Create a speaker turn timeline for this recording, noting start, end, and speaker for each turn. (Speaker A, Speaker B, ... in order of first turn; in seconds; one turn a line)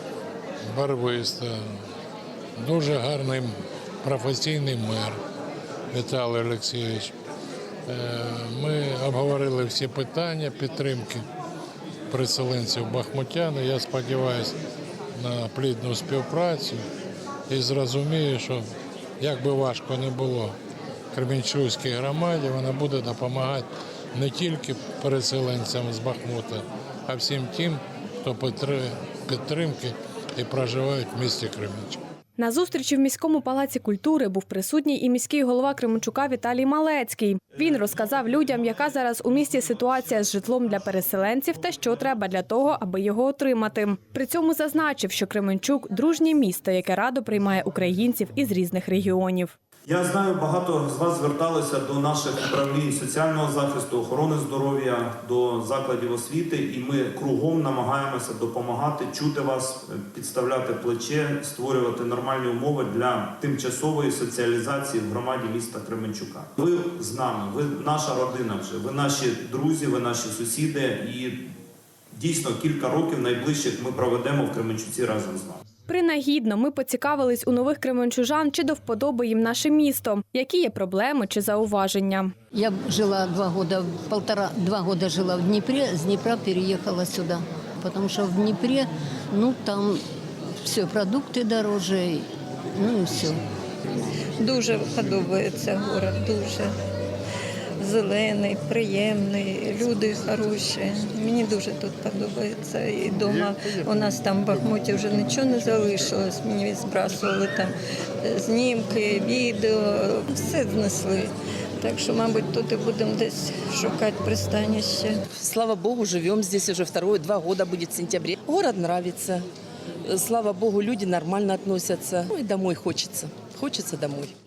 Speaker A: 0.7-1.8
Speaker A: 2.6-5.2
Speaker A: 5.9-7.1
Speaker A: 7.9-11.2
Speaker A: 12.1-14.6
Speaker A: 15.1-16.8
Speaker A: 17.5-18.6
Speaker A: 19.2-20.5
Speaker A: 21.1-32.0
Speaker B: 32.4-49.5
Speaker C: 49.9-71.4
Speaker C: 72.1-75.6
Speaker B: 75.9-82.3
Speaker D: 82.5-90.0
Speaker D: 90.6-93.4
Speaker E: 94.4-96.7
Speaker E: 97.8-107.7
Speaker E: 108.2-115.2
Speaker F: 115.3-119.4
Speaker F: 120.1-124.3